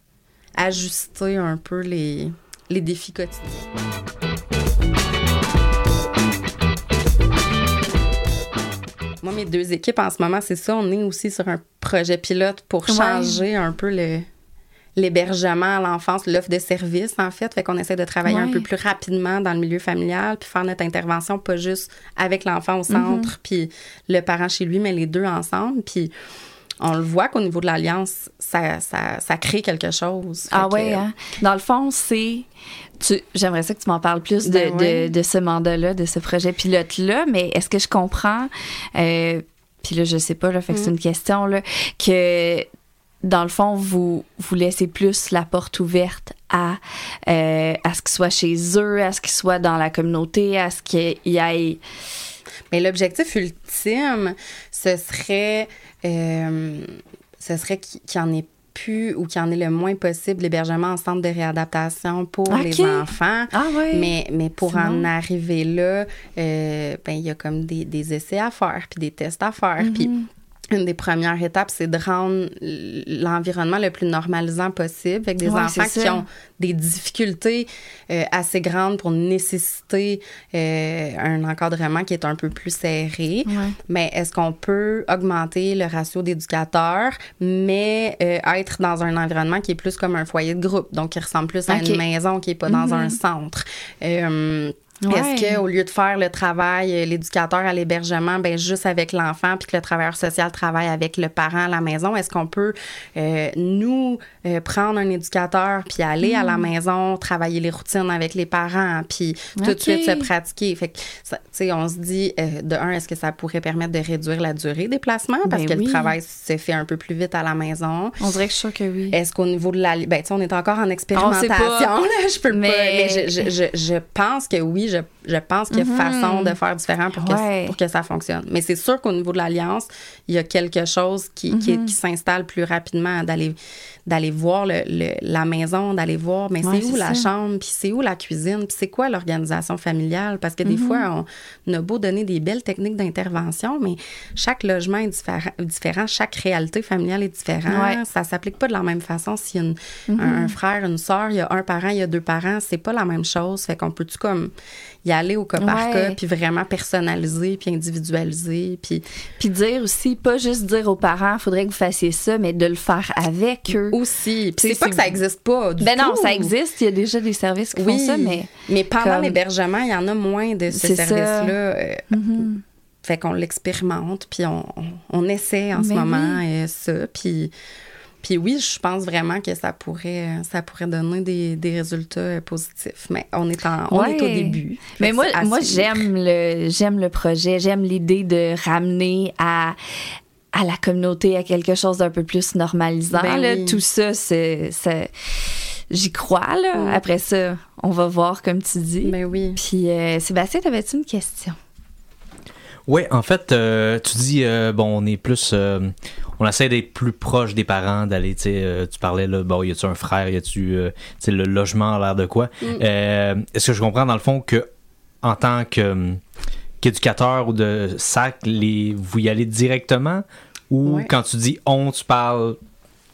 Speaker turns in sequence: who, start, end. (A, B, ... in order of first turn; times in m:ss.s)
0:00.6-0:03.7 A
0:09.2-0:14.3 A
0:12.9-0:13.4 B
0:15.0-0:26.1 A
0:18.2-0:18.6 B
0:22.9-0:23.3 B
0:26.8-0:31.0 A
0:30.5-0:32.5 B
0:33.0-0:42.7 B
0:34.4-0:35.1 A
0:43.2-0:51.8 B
0:52.7-1:10.1 A
1:02.5-1:04.1 B
1:04.6-1:05.1 B
1:09.8-1:10.3 B
1:10.7-1:58.2 A
1:15.4-1:16.2 B
1:23.4-1:23.8 B
1:31.7-1:32.0 B
1:32.7-1:33.2 B
1:35.0-1:35.6 B
1:46.2-1:46.6 B
1:49.6-1:50.3 B
1:55.5-1:56.1 B
1:58.2-1:59.2 B
1:59.1-2:34.5 A
2:01.1-2:01.9 B
2:02.5-2:03.5 B
2:05.7-2:06.6 B
2:07.2-2:07.7 B
2:11.5-2:11.9 B
2:16.6-2:17.2 B
2:20.6-2:21.0 B
2:27.7-2:28.0 B
2:30.1-2:30.5 B
2:35.0-2:39.0 A
2:35.6-2:36.2 B
2:39.4-2:44.0 B
2:43.7-2:46.5 A
2:44.6-2:45.2 B
2:45.8-2:49.4 B
2:47.7-2:52.0 A
2:50.7-2:51.5 B
2:52.1-2:52.6 B
2:53.0-2:57.5 A
2:55.7-2:56.4 B
2:58.2-3:06.1 A
3:03.9-3:09.8 B
3:10.5-3:15.1 B
3:13.1-3:13.8 A
3:15.9-3:21.6 B
3:16.7-3:17.0 A
3:19.0-3:19.6 A
3:22.9-3:34.7 C
3:35.2-3:36.2 C
3:36.8-3:42.6 C
3:40.8-3:41.1 A